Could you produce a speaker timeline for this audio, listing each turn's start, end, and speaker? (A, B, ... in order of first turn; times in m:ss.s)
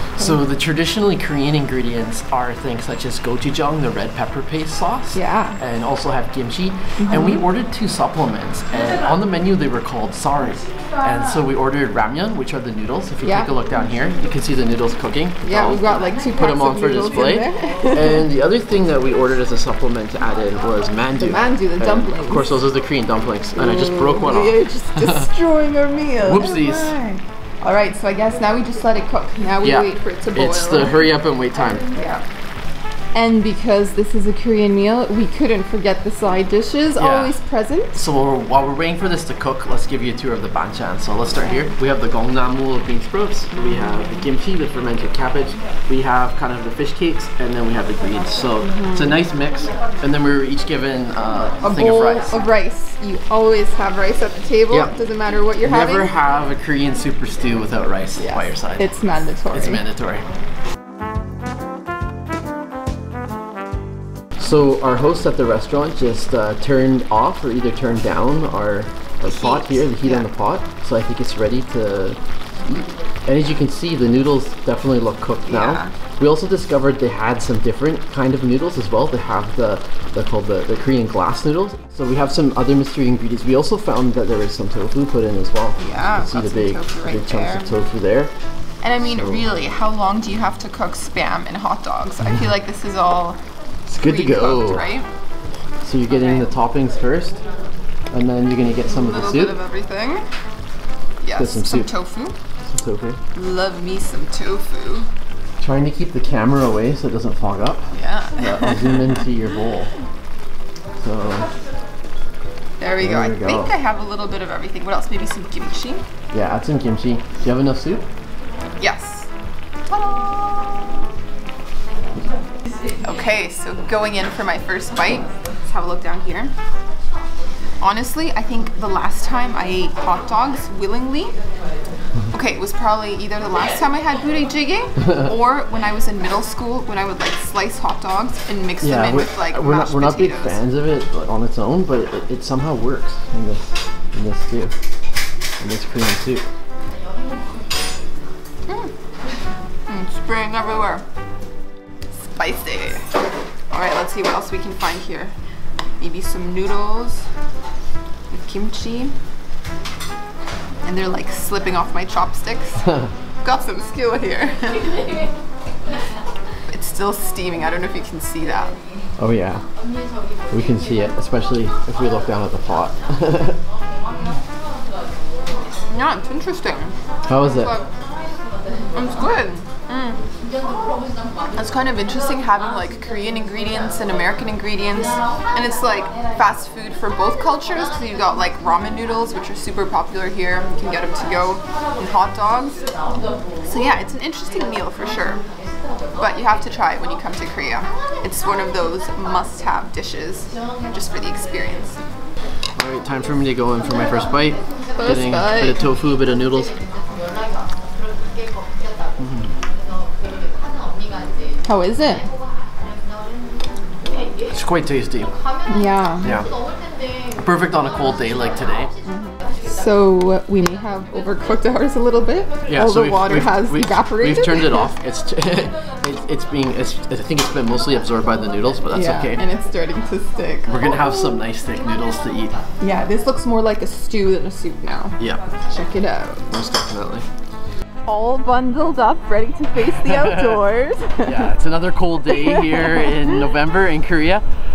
0:00.2-0:25.3 A
0:05.1-0:05.6 B
0:07.0-0:07.4 B
0:13.2-0:13.5 B
0:15.4-0:18.2 B
0:21.2-0:22.6 B
0:23.6-0:30.9 B
0:26.2-0:26.9 A
0:29.6-0:31.8 A
0:31.9-0:32.2 B
0:33.1-0:38.0 B
0:37.0-0:37.4 A
0:37.9-0:52.4 A
0:41.3-0:41.7 B
0:48.6-0:49.2 B
0:51.6-0:56.1 B
0:55.6-1:00.3 A
0:58.2-0:59.8 B
1:04.4-1:28.3 A
1:09.3-1:10.3 B
1:15.5-1:15.9 B
1:25.8-1:27.7 B
1:28.8-1:33.4 B
1:29.0-1:29.4 A
1:33.9-1:34.8 A
1:34.0-1:35.1 B
1:35.8-1:37.4 A
1:36.1-1:36.5 B
1:38.1-1:39.6 A
1:38.8-1:40.2 B
1:41.2-1:42.3 B
1:41.4-1:41.9 A
1:42.7-1:43.2 A
1:43.3-1:45.0 B
1:45.6-1:47.8 A
1:47.9-1:49.2 B
1:48.4-1:49.9 A
1:51.0-1:51.5 A
1:52.8-1:56.0 B
1:53.0-1:53.7 A
1:56.3-1:58.0 A
1:58.8-1:59.3 B
1:59.9-2:00.2 B
2:03.0-2:06.5 B
2:07.8-2:11.3 B
2:12.3-2:20.6 B
2:18.8-2:24.7 A
2:25.6-2:26.4 A
2:29.9-2:31.0 B
2:32.2-2:33.1 B
2:33.7-2:35.3 B
2:36.0-2:37.2 B
2:38.3-2:39.1 B
2:40.8-2:45.0 B
2:46.7-2:48.7 B
2:49.2-2:49.6 A
2:50.5-2:53.6 A
2:55.9-2:57.9 B
2:57.3-2:57.8 A
2:58.9-3:00.2 B
3:01.6-3:12.8 B
3:13.6-3:15.4 B
3:16.2-3:22.0 B
3:22.8-3:26.8 A
3:25.0-3:25.8 B
3:29.2-3:29.5 A
3:31.6-3:32.2 B
3:34.5-3:35.3 A
3:35.7-3:36.3 B
3:36.2-3:36.5 A
3:37.4-3:38.9 A
3:39.0-3:44.9 B
3:42.7-3:49.4 A
3:48.9-3:50.8 B
3:50.7-3:52.5 A
3:52.8-3:56.4 B
3:56.5-3:57.2 A
3:58.0-4:01.5 B
4:00.0-4:00.6 A
4:01.2-4:04.4 A
4:02.2-4:03.3 B